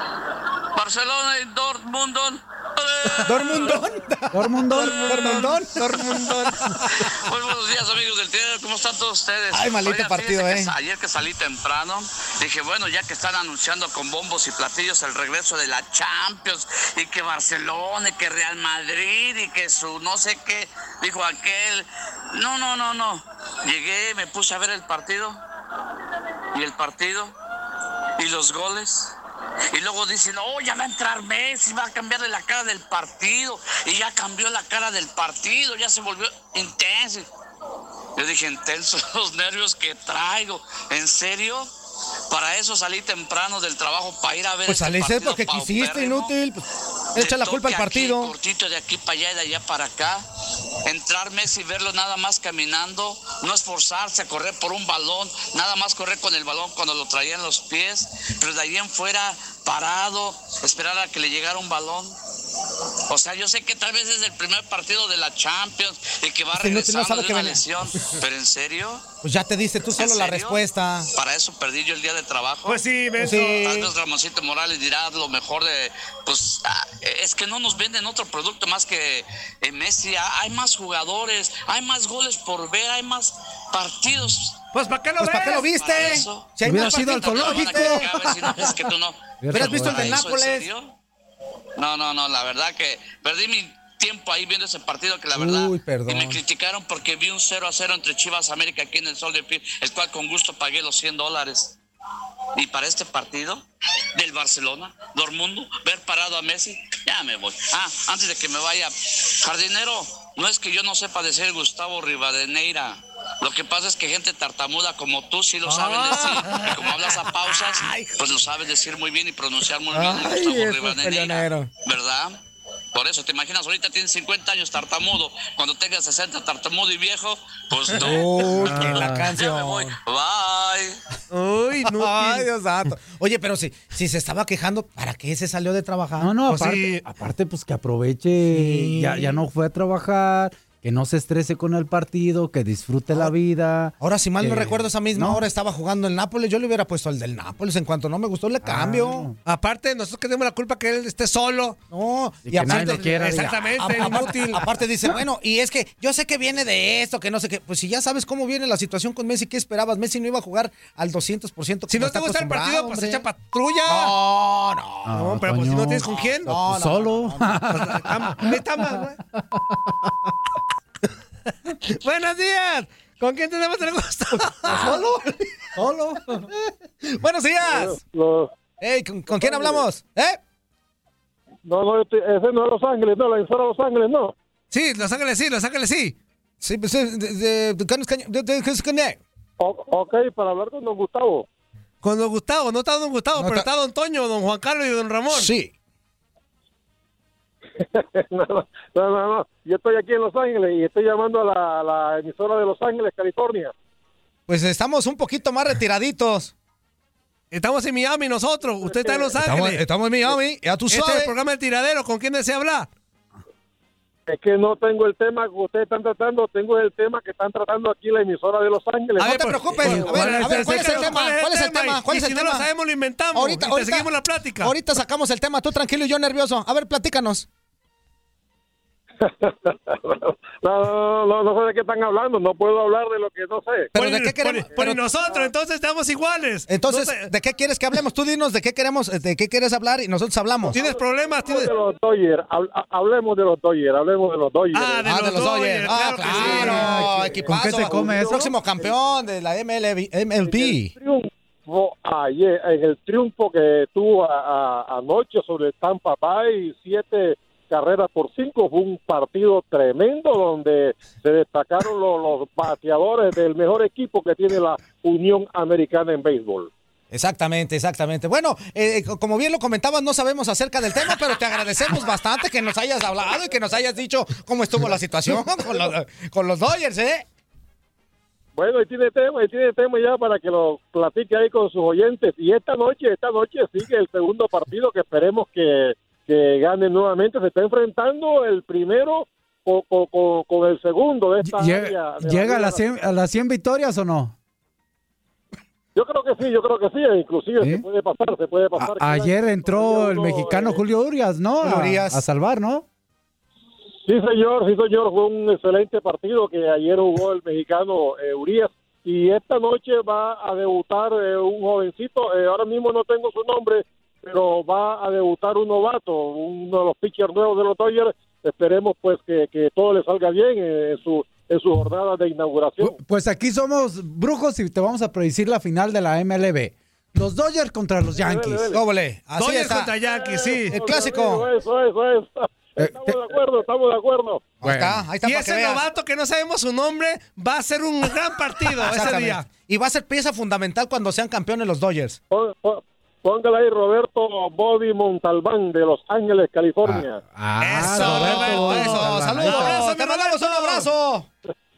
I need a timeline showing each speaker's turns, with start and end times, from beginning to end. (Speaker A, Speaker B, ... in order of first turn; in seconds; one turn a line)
Speaker A: 0.8-3.7
Speaker B: 3.3-6.5
Speaker C: 4.3-5.4
Speaker D: 4.8-6.7
Speaker A: 7.0-25.4
Speaker B: 9.5-10.7
Speaker A: 26.5-27.3
Speaker A: 28.2-29.1
Speaker A: 29.7-37.3
Speaker A: 38.2-41.7
Speaker A: 42.3-46.3
Speaker B: 44.7-46.6
Speaker A: 47.1-50.2
Speaker B: 47.2-48.3
Speaker A: 50.9-62.1
Speaker A: 63.1-69.0
Speaker B: 66.6-68.1
Speaker B: 69.2-71.1
Speaker A: 69.9-70.6
Speaker A: 71.1-72.8
Speaker D: 72.7-73.5
Speaker B: 73.2-73.9
Speaker A: 73.6-84.6
Speaker D: 84.7-85.6
Speaker B: 85.2-88.3
Speaker A: 85.4-90.9
Speaker C: 86.6-88.0
Speaker C: 89.4-90.2
Speaker B: 89.5-90.7
Speaker A: 91.8-101.8
Speaker B: 95.3-96.4
Speaker A: 102.6-103.6
Speaker A: 104.2-122.4
Speaker D: 115.7-116.7
Speaker B: 116.0-118.2
Speaker B: 119.9-121.7
Speaker A: 122.9-131.0
Speaker B: 128.0-129.9
Speaker C: 128.6-129.3
Speaker D: 131.3-132.5
Speaker B: 131.8-136.3
Speaker C: 136.2-145.4
Speaker D: 136.5-137.0
Speaker B: 138.5-139.4
Speaker B: 144.0-149.3
Speaker C: 148.6-149.4
Speaker D: 149.4-151.8
Speaker B: 151.9-163.3
Speaker C: 152.5-154.6
Speaker D: 152.7-154.6
Speaker D: 161.9-164.1
Speaker B: 163.9-165.2
Speaker C: 165.1-169.0
Speaker D: 165.1-166.5
Speaker B: 166.1-167.5
Speaker D: 167.7-169.2
Speaker D: 171.9-174.9
Speaker B: 174.7-175.3
Speaker C: 174.7-175.0
Speaker C: 175.8-176.5
Speaker B: 177.1-178.0
Speaker E: 177.7-178.5
Speaker B: 178.8-180.4
Speaker E: 179.3-179.8
Speaker E: 181.7-184.3
Speaker D: 184.7-186.2
Speaker B: 186.6-189.2
Speaker E: 189.6-191.5
Speaker D: 192.0-195.5
Speaker B: 193.3-193.7
Speaker B: 195.3-195.7
Speaker E: 197.8-203.7
Speaker B: 204.5-206.5
Speaker D: 207.5-209.8
Speaker E: 208.8-209.3
Speaker B: 209.4-211.3
Speaker D: 210.9-212.9
Speaker E: 214.3-219.4
Speaker D: 219.2-224.8
Speaker B: 219.2-222.7
Speaker C: 219.8-221.0
Speaker B: 223.3-227.5
Speaker E: 229.2-233.9
Speaker B: 233.9-235.0
Speaker D: 233.9-237.3
Speaker E: 234.7-235.5
Speaker B: 236.7-240.8
Speaker E: 240.7-245.1
Speaker D: 240.7-241.7
Speaker D: 244.7-247.1
Speaker B: 245.0-250.9
Speaker C: 246.3-248.5
Speaker E: 246.3-248.9
Speaker E: 250.4-266.7
Speaker B: 267.1-277.2
Speaker E: 278.6-292.8
Speaker C: 291.4-294.4
Speaker E: 295.9-300.8
Speaker C: 297.6-297.9
Speaker C: 298.8-302.9
Speaker B: 301.6-302.2
Speaker E: 304.1-323.0
Speaker C: 322.8-328.8
Speaker E: 328.1-328.8
Speaker B: 328.7-330.0
Speaker D: 329.4-330.9
Speaker E: 330.0-334.5
Speaker B: 330.7-331.5
Speaker C: 332.8-333.2
Speaker B: 334.6-335.8
Speaker C: 334.6-335.1
Speaker D: 335.2-339.5
Speaker B: 338.7-342.2
Speaker E: 342.3-347.2
Speaker C: 346.8-349.8
Speaker D: 347.6-350.9
Speaker B: 347.8-351.3